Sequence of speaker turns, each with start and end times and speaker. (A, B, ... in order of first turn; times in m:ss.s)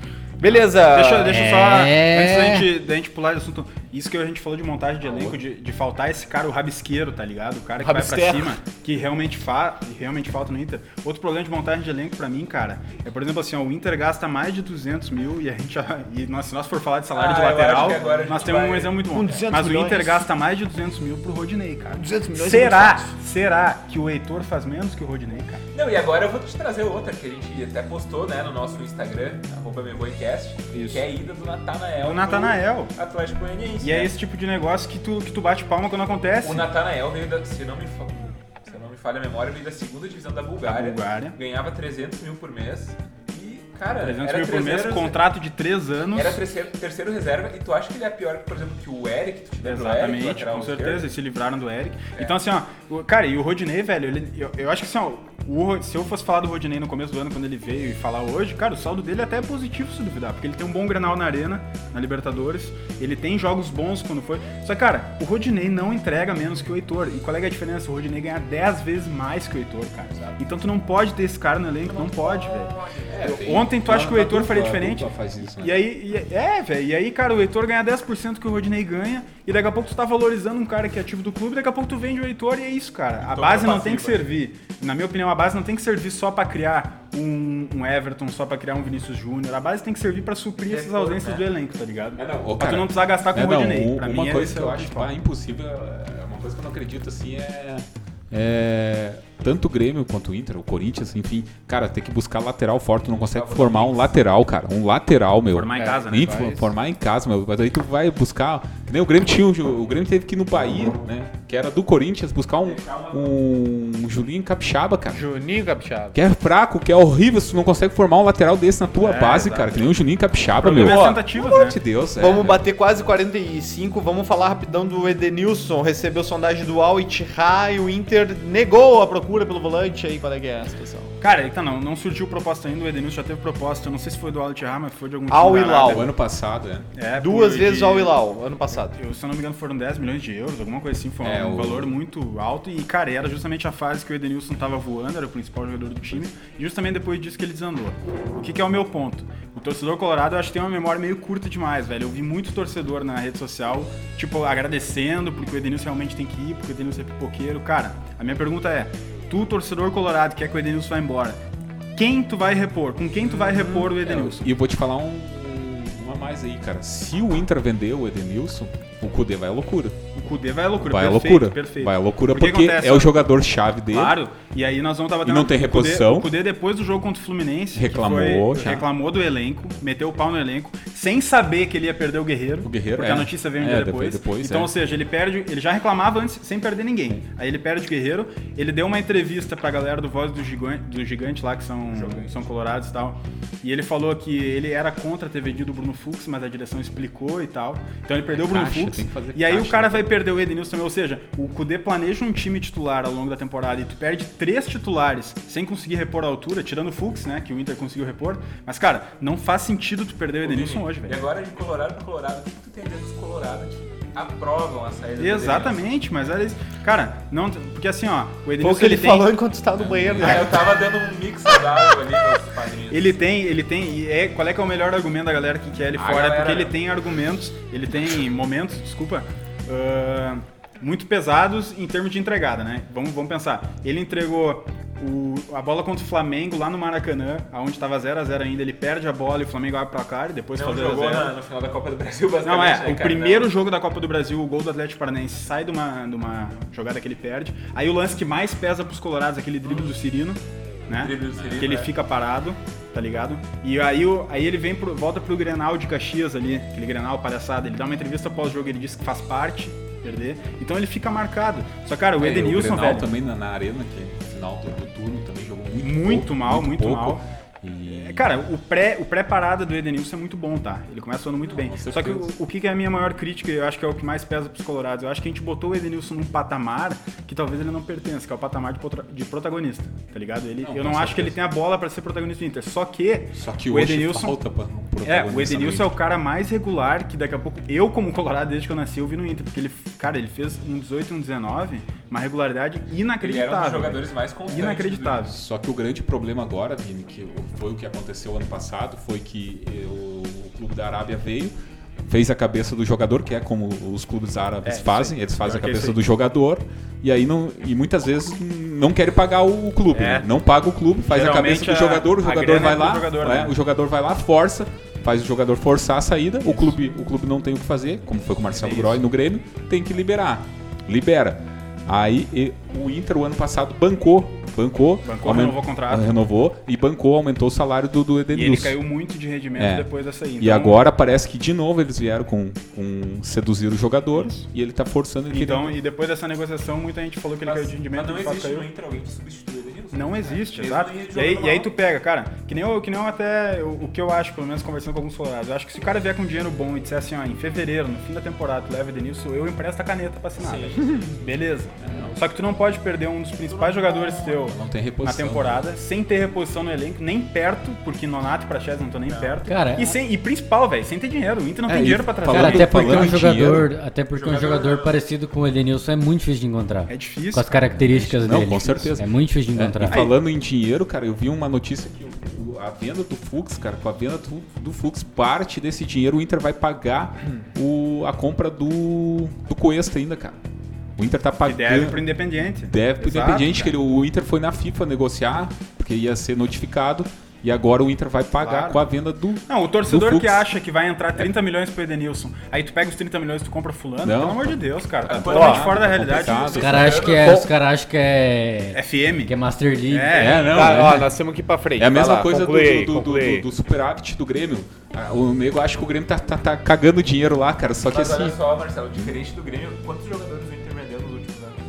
0:00.4-0:01.8 A
0:00.5-0:25.6 B
0:01.3-0:02.7 C
0:05.0-0:05.4 D
0:07.8-0:08.6 A
0:17.1-0:19.5 E
0:19.1-0:20.3 A
0:22.0-0:23.1 A
0:25.7-0:34.1 E
0:30.7-0:31.1 A
0:32.0-0:32.9 B
0:33.8-0:36.7 B
0:36.4-0:45.2 E
0:40.6-0:41.4 B
0:44.0-0:46.4 B
0:46.1-0:51.1 E
0:49.6-1:35.1 B
1:11.9-1:13.5 A
1:13.1-1:15.8 D
1:23.2-1:24.2 E
1:30.7-1:31.5 E
1:32.2-1:55.3 D
1:43.3-1:44.1 E
1:45.5-1:46.5 B
1:45.7-1:46.7 A
1:52.6-1:53.4 E
1:55.1-1:56.2 A
1:56.1-2:02.6 D
1:59.0-1:59.8 B
2:00.6-2:01.8 B
2:00.8-2:01.5 A
2:02.2-2:11.2 A
2:11.2-2:16.1 B
2:15.3-2:16.1 A
2:15.8-2:16.9 D
2:17.0-2:18.2 B
2:17.2-2:19.0 A
2:19.0-2:41.4 B
2:21.2-2:21.9 D
2:42.0-2:44.5 B
2:43.6-2:50.0 D
2:50.2-2:53.2 B
2:50.8-2:54.2 D
2:53.9-3:31.2 B
2:55.2-2:56.3 D
2:57.7-2:58.9 D
3:02.6-3:04.7 D
3:18.3-3:20.2 D
3:30.4-3:35.8 E
3:35.2-3:39.3 B
3:38.6-3:40.7 A
3:39.8-3:40.6 D
3:40.2-3:43.2 E
3:42.9-4:01.3 B
3:46.0-3:46.8 E
4:00.6-4:03.5 E
4:02.4-4:23.1 B
4:09.6-4:09.9 E
4:10.9-4:11.9 E
4:11.4-4:11.7 D
4:22.2-4:28.3 D
4:25.8-4:27.2 B
4:27.9-4:44.4 B
4:31.5-4:32.3 D
4:40.6-4:41.4 D
4:43.4-4:45.9 D
4:45.0-4:55.4 B
4:53.2-4:55.3 E
4:55.2-5:01.5 D
5:02.1-5:28.8 D
5:04.7-5:06.0 B
5:11.1-5:13.6 B
5:25.0-5:26.2 B
5:28.3-5:30.8 B
5:29.6-5:35.8 D
5:34.1-5:34.4 B
5:35.3-5:38.7 B
5:37.4-5:41.7 E
5:39.9-6:03.1 B
5:50.4-5:51.2 E
5:51.8-5:52.2 D
5:53.5-5:54.3 E
5:54.5-5:55.6 D
5:59.1-5:59.4 E
5:59.5-5:59.9 C
6:01.7-6:03.7 D
6:02.3-6:10.0 C
6:04.1-6:05.0 E
6:06.9-6:07.7 B
6:07.8-6:20.4 D
6:09.9-6:10.2 B
6:21.0-6:22.0 D
6:21.4-6:23.7 B
6:22.6-6:30.5 D
6:28.4-6:28.8 B
6:29.5-6:36.7 B
6:34.0-6:37.3 D
6:35.0-6:37.4 E
6:35.2-6:35.6 A
6:36.6-6:40.5 C
6:38.7-6:39.3 B
6:39.9-6:40.5 B
6:40.1-6:41.2 D
6:40.3-6:40.8 E
6:40.5-6:43.5 A
6:41.8-6:48.4 D
6:47.9-6:51.6 E